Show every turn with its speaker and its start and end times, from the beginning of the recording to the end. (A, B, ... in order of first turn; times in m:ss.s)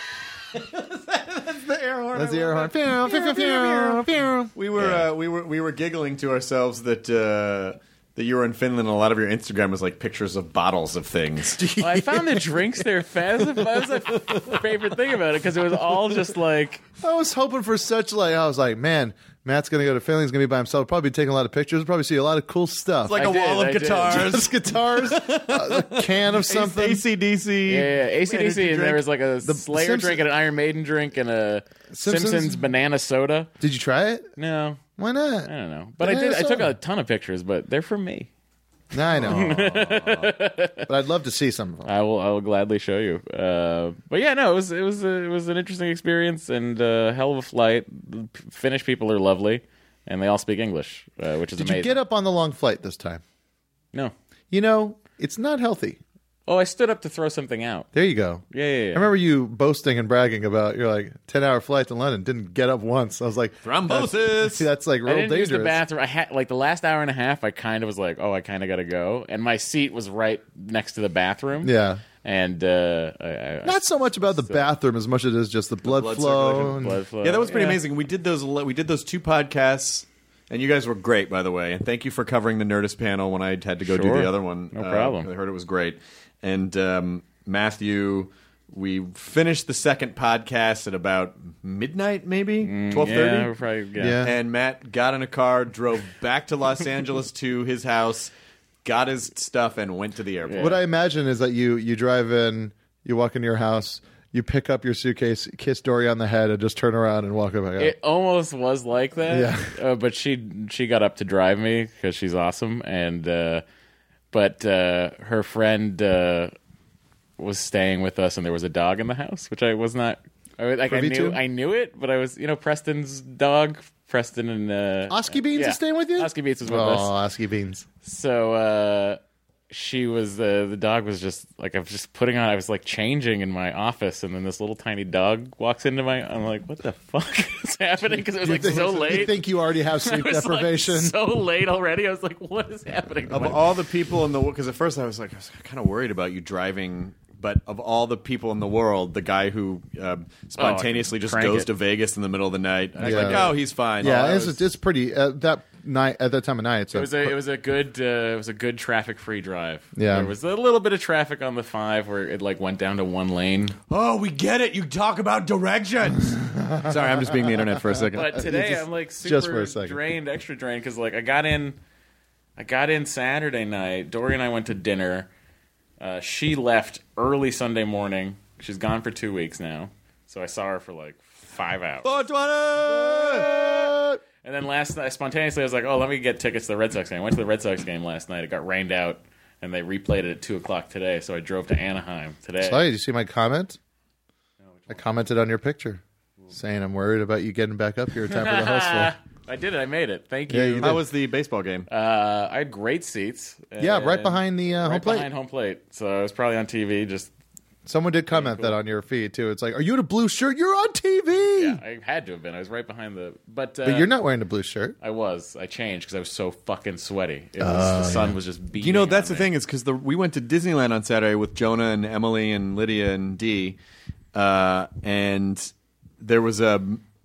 0:00.5-0:11.6 A
0:02.1-0:04.5 B
0:04.8-0:05.0 C
0:11.6-0:12.6 B
0:11.8-0:16.8 C
0:17.0-0:23.2 B
0:23.1-0:27.9 A
0:23.1-0:24.3 C
0:24.0-0:27.0 B
0:27.7-0:33.5 C
0:28.3-0:30.2 B
0:31.9-0:32.7 B
0:33.6-0:34.3 B
0:34.4-0:34.8 C
0:35.0-0:36.7 B
0:35.4-0:38.3 C
0:38.9-0:39.8 B
0:39.2-0:40.9 C
0:39.2-0:40.3 A
0:40.9-0:41.9 B
0:41.8-0:52.0 C
0:51.6-0:53.2 B
0:54.5-0:56.0 B
0:56.5-0:57.9 C
0:57.9-1:05.8 B
0:58.5-0:59.1 C
1:03.6-1:04.7 A
1:05.0-1:14.7 C
1:11.6-1:12.0 B
1:13.6-1:17.0 B
1:15.8-1:33.5 A
1:16.7-1:17.8 C
1:23.8-1:25.3 C
1:32.6-1:34.2 C
1:34.0-1:34.3 B
1:34.2-1:38.3 A
1:38.8-1:40.6 A
1:40.5-1:40.8 C
1:40.6-1:48.0 B
1:47.8-1:53.6 C
1:49.3-1:49.7 B
1:54.3-1:56.5 C
1:57.4-2:07.1 C
2:00.9-2:01.4 B
2:05.1-2:07.8 B
2:08.0-2:19.4 C
2:18.4-2:21.1 B
2:20.0-2:23.6 C
2:23.3-2:34.6 A
2:30.6-2:31.7 C
2:33.0-2:33.5 C
2:33.0-2:37.4 B
2:36.9-2:43.7 C
2:39.9-2:40.3 B
2:43.9-2:48.4 A
2:46.4-2:50.0 B
2:48.1-2:51.8 C
2:52.6-2:55.3 C
2:56.0-3:02.2 C
3:02.0-3:03.5 A
3:02.8-3:04.2 B
3:03.4-3:03.9 C
3:04.4-3:12.8 C
3:12.6-3:13.8 B
3:14.7-3:15.0 C
3:14.9-3:19.1 B
3:18.3-3:21.0 C
3:20.5-3:21.0 B
3:20.8-3:21.9 A
3:21.9-3:27.3 C
3:23.8-3:25.3 B
3:27.8-3:31.8 B
3:28.3-3:28.8 C
3:31.6-3:34.1 C
3:33.8-3:35.0 B
3:35.0-3:39.5 C
3:37.6-3:38.4 B
3:38.8-3:43.8 A
3:44.3-3:47.0 A